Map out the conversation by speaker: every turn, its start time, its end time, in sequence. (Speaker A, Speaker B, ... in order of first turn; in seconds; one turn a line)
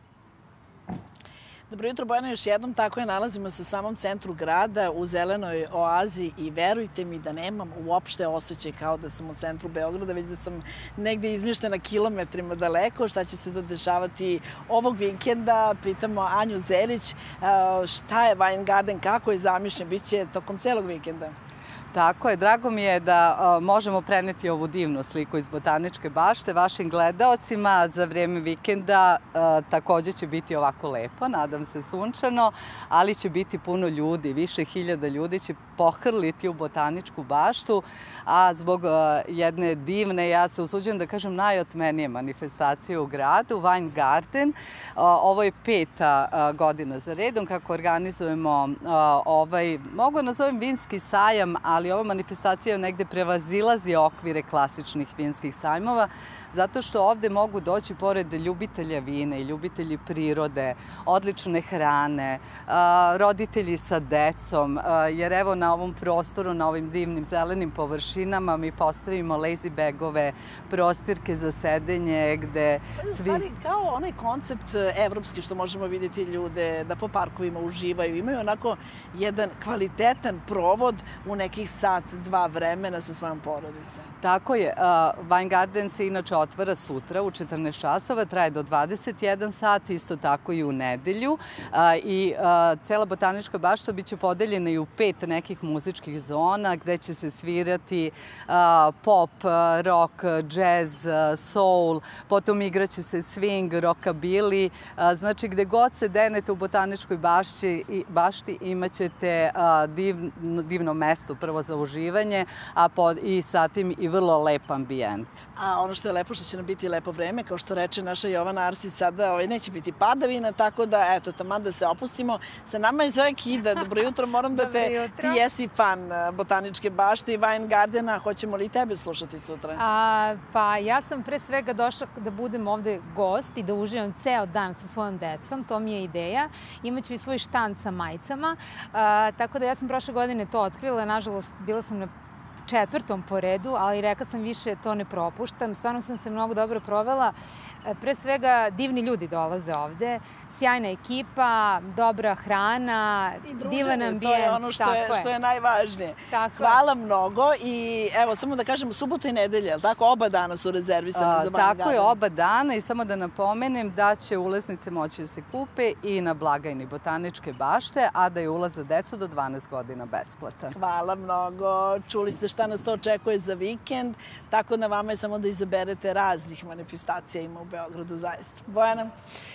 Speaker A: 1.7-21.3
Speaker B: 21.9-73.4
Speaker A: 73.0-84.1
Speaker B: 84.2-115.4
Speaker A: 115.6-129.8
Speaker C: 124.5-125.4
Speaker C: 129.8-142.1
Speaker C: 142.7-155.3
Speaker A: 153.4-162.2
Speaker C: 156.3-156.8
Speaker B: 161.1-170.8
Speaker A: 170.7-179.1